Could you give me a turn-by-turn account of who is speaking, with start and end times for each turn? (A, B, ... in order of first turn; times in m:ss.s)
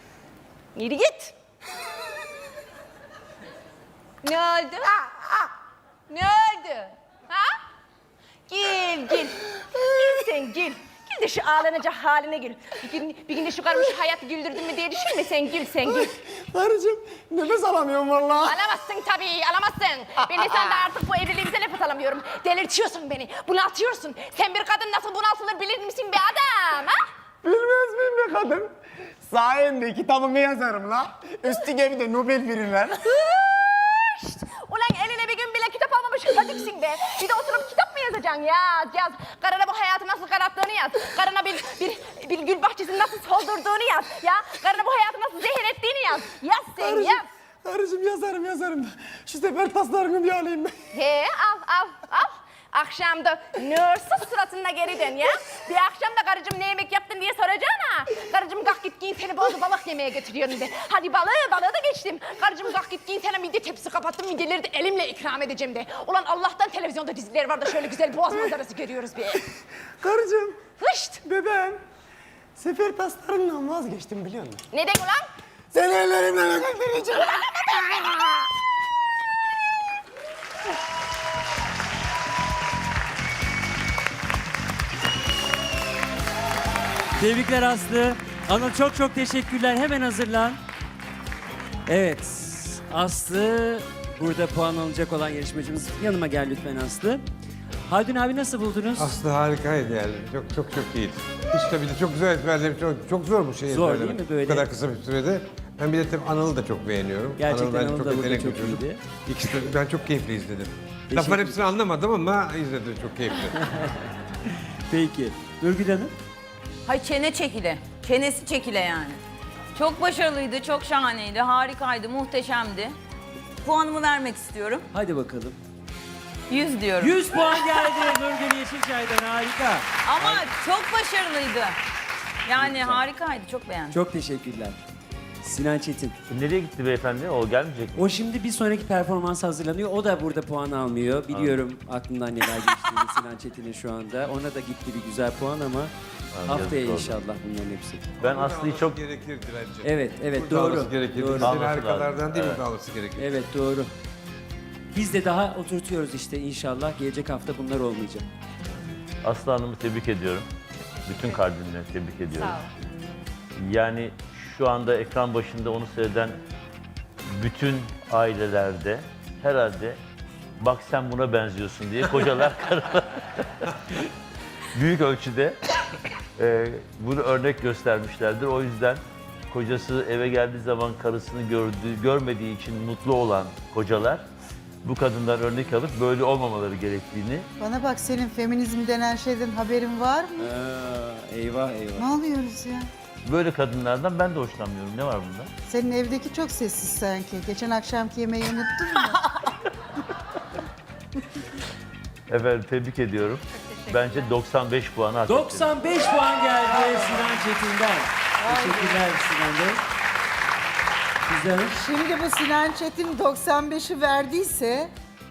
0:00.8-0:01.3 A
0:04.2-0:05.5 A
0:06.1-0:07.6 A
0:08.5-0:16.2 A
0:15.9-0:18.6 B
0:18.4-0:27.0 A
0:27.4-0:28.7 B
0:29.3-0:33.1 B
0:33.1-0:47.3 A
0:46.8-0:50.8 B
0:50.9-1:09.4 A
1:10.0-1:10.6 B
1:10.8-1:11.2 A
1:11.2-1:11.8 B
1:12.6-1:14.6 B
1:14.7-1:15.3 A
1:15.7-1:18.2 B
1:17.4-1:17.7 A
1:27.2-1:30.6 C
1:31.9-1:37.2 C
1:37.9-1:39.1 C
1:39.0-1:53.6 D
1:43.7-1:44.7 C
1:47.4-1:49.0 C
1:51.1-1:51.6 C
1:53.6-1:54.0 C
1:54.9-1:56.1 C
1:56.9-1:59.2 E
1:59.8-2:03.0 E
2:03.6-2:04.9 E
2:04.9-2:05.6 C
2:06.5-2:07.2 E
2:07.0-2:10.4 C
2:10.1-2:11.8 E
2:12.4-2:14.0 E
2:12.6-2:13.0 C
2:13.9-2:14.8 C
2:15.4-2:16.2 C
2:16.3-2:18.0 F
2:18.0-2:25.9 C
2:21.3-2:21.6 F
2:26.3-2:27.2 F
2:26.4-2:28.1 C
2:28.2-2:33.3 D
2:28.2-2:29.0 F
2:29.8-2:31.6 C
2:31.4-2:32.6 F
2:33.2-2:33.9 C
2:34.9-2:38.3 C
2:39.2-2:40.5 F
2:41.1-2:42.7 F
2:43.6-2:46.4 F
2:47.4-2:50.0 F
2:50.6-2:53.7 F
2:54.7-2:55.6 F
2:56.4-3:04.2 F
3:04.8-3:07.5 F
3:07.6-3:10.5 G
3:10.4-3:12.1 C
3:12.0-3:12.9 G
3:13.2-3:15.5 F
3:15.7-3:19.2 G
3:22.3-3:25.7 F
3:25.3-3:29.8 C
3:31.3-3:31.8 C
3:31.8-3:34.9 G